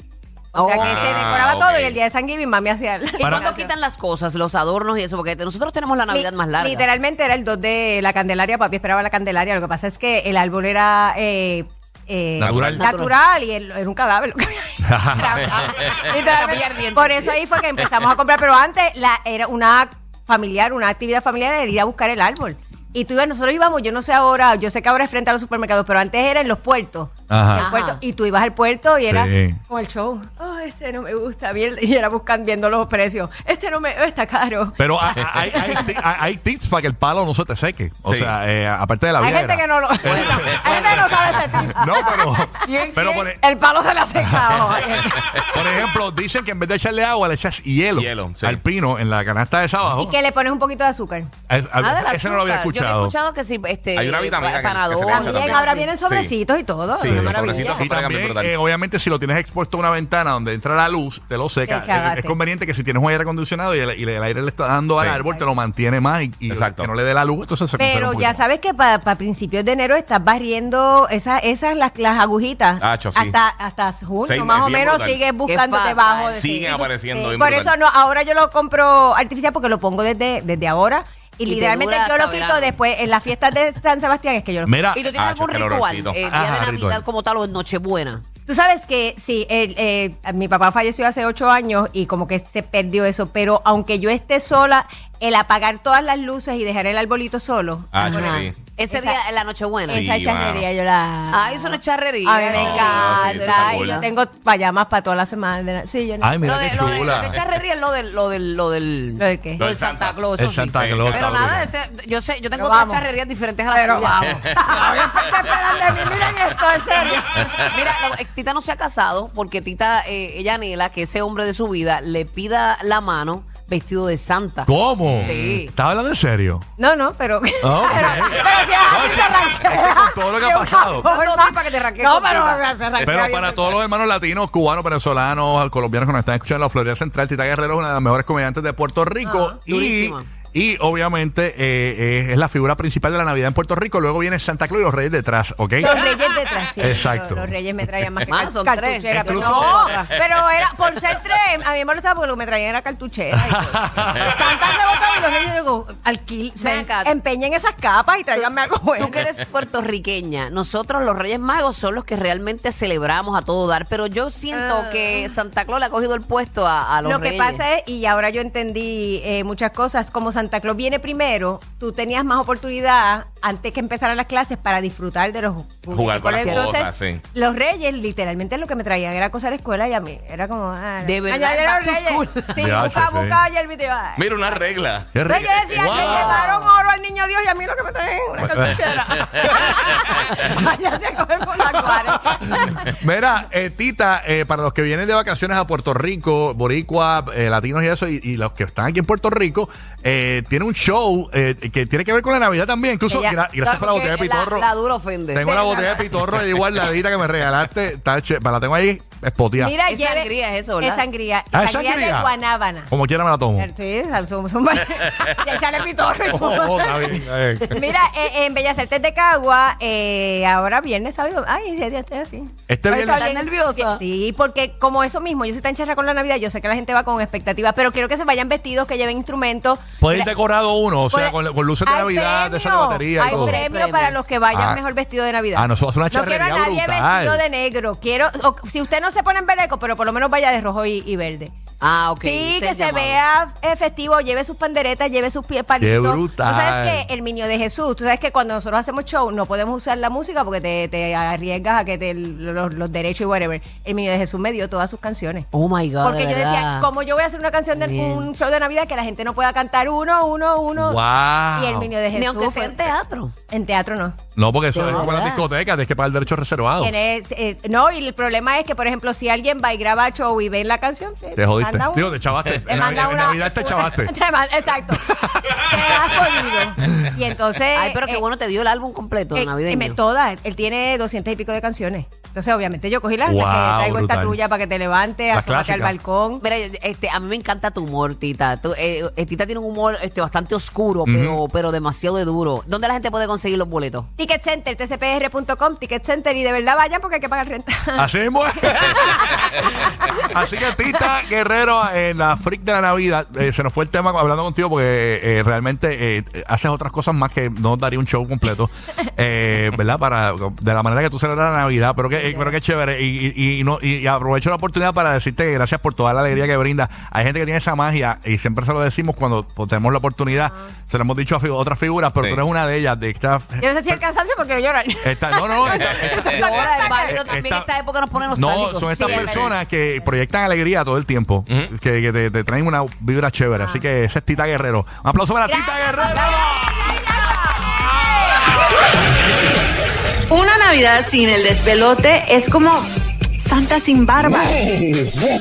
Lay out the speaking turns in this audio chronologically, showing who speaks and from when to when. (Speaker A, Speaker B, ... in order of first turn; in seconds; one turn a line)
Speaker A: 0.5-1.4
Speaker B: 0.5-3.7
Speaker C: 0.8-2.0
Speaker A: 3.2-6.9
Speaker D: 3.2-3.5
Speaker B: 6.1-36.1
Speaker D: 12.4-12.8
Speaker C: 12.4-12.8
Speaker A: 12.7-13.1
Speaker D: 14.8-15.6
Speaker A: 15.2-17.4
Speaker D: 27.3-27.7
Speaker A: 27.5-28.0
Speaker D: 29.1-29.6
Speaker D: 34.8-41.0
Speaker C: 38.0-38.3
Speaker B: 39.2-45.9
Speaker A: 40.0-42.0
Speaker D: 41.6-43.4
Speaker A: 42.6-43.3
Speaker D: 44.2-44.8
Speaker D: 45.5-50.1
Speaker C: 47.9-48.6
Speaker B: 50.0-51.3
Speaker D: 51.5-53.1
Speaker A: 51.8-55.9
Speaker C: 53.9-56.3
Speaker B: 55.1-57.9
Speaker C: 57.0-58.5
Speaker D: 57.0-68.4
Speaker B: 61.6-62.4
Speaker C: 66.5-66.9
Speaker B: 67.8-84.8
Speaker C: 72.8-73.4
Speaker C: 74.2-75.2
Speaker A: 75.4-76.7
Speaker C: 76.3-77.7
Speaker A: 81.5-82.7
Speaker D: 84.6-85.0
Speaker A: 84.9-88.2
Speaker C: 85.1-86.2
Speaker D: 86.2-87.0
Speaker B: 88.5-99.2
Speaker C: 97.9-98.5
Speaker A: 98.0-100.1
Speaker B: 99.8-106.5
Speaker C: 99.9-100.7
Speaker A: 101.3-104.1
Speaker C: 102.5-104.0
Speaker D: 106.2-107.4
Speaker A: 106.4-115.1
Speaker C: 107.0-107.4
Speaker B: 109.2-109.6
Speaker C: 109.6-111.7
Speaker D: 110.3-111.7
Speaker B: 112.5-113.1
Speaker B: 113.7-117.7
Speaker A: 117.7-125.7
Speaker D: 124.7-126.7
Speaker C: 125.0-125.6
Speaker B: 126.8-133.8
Speaker D: 127.6-131.1
Speaker A: 131.0-132.7
Speaker D: 133.0-146.2
Speaker B: 139.2-139.6
Speaker A: 139.7-140.3
Speaker B: 145.8-159.3
Speaker D: 146.8-147.5
Speaker A: 148.2-150.2
Speaker D: 149.1-149.9
Speaker D: 153.5-154.3
Speaker C: 154.1-154.4
Speaker A: 156.6-157.1
Speaker A: 158.3-167.6
Speaker B: 164.5-165.4
Speaker B: 167.0-184.6
Speaker C: 175.9-177.2
Speaker A: 176.4-176.8
Speaker A: 181.0-182.8
Speaker D: 182.6-183.4
Speaker C: 184.2-185.8
Speaker D: 185.1-186.5
Speaker B: 185.2-192.9
Speaker A: 185.8-186.8
Speaker D: 188.5-188.8
Speaker D: 191.7-204.7
Speaker B: 203.1-203.4
Speaker A: 203.6-205.5
Speaker D: 205.3-209.7
Speaker B: 205.4-206.1
Speaker B: 209.6-212.9
Speaker A: 209.8-211.0
Speaker D: 211.5-212.3
Speaker D: 212.9-213.7
Speaker B: 213.6-230.3
Speaker D: 216.3-217.8
Speaker D: 222.7-223.3
Speaker A: 223.1-224.0
Speaker D: 230.0-233.6
Speaker B: 231.1-241.5
Speaker A: 233.2-234.2
Speaker D: 234.5-234.8
Speaker D: 235.5-237.4
Speaker A: 241.8-243.2
Speaker B: 242.2-255.5
Speaker D: 245.8-247.1
Speaker A: 255.5-256.9
Speaker B: 256.0-262.9
Speaker A: 257.7-258.3
Speaker D: 260.8-261.9
Speaker A: 262.1-263.3
Speaker B: 263.5-264.1
Speaker D: 264.4-267.0
Speaker A: 264.7-265.4
Speaker B: 266.8-278.2
Speaker D: 271.4-274.1
Speaker A: 277.7-280.0
Speaker B: 279.3-286.4
Speaker D: 283.2-284.4
Speaker D: 285.3-285.9
Speaker A: 286.4-294.1
Speaker D: 291.1-291.4
Speaker B: 294.2-298.1
Speaker D: 297.9-324.0
Speaker B: 298.7-300.3
Speaker B: 312.1-312.5
Speaker B: 323.6-327.3
Speaker D: 325.0-327.7
Speaker C: 325.8-326.2
Speaker A: 326.1-329.5
Speaker D: 328.3-336.9
Speaker B: 328.8-330.1
Speaker B: 333.6-333.8
Speaker B: 335.5-338.4
Speaker E: 340.3-344.7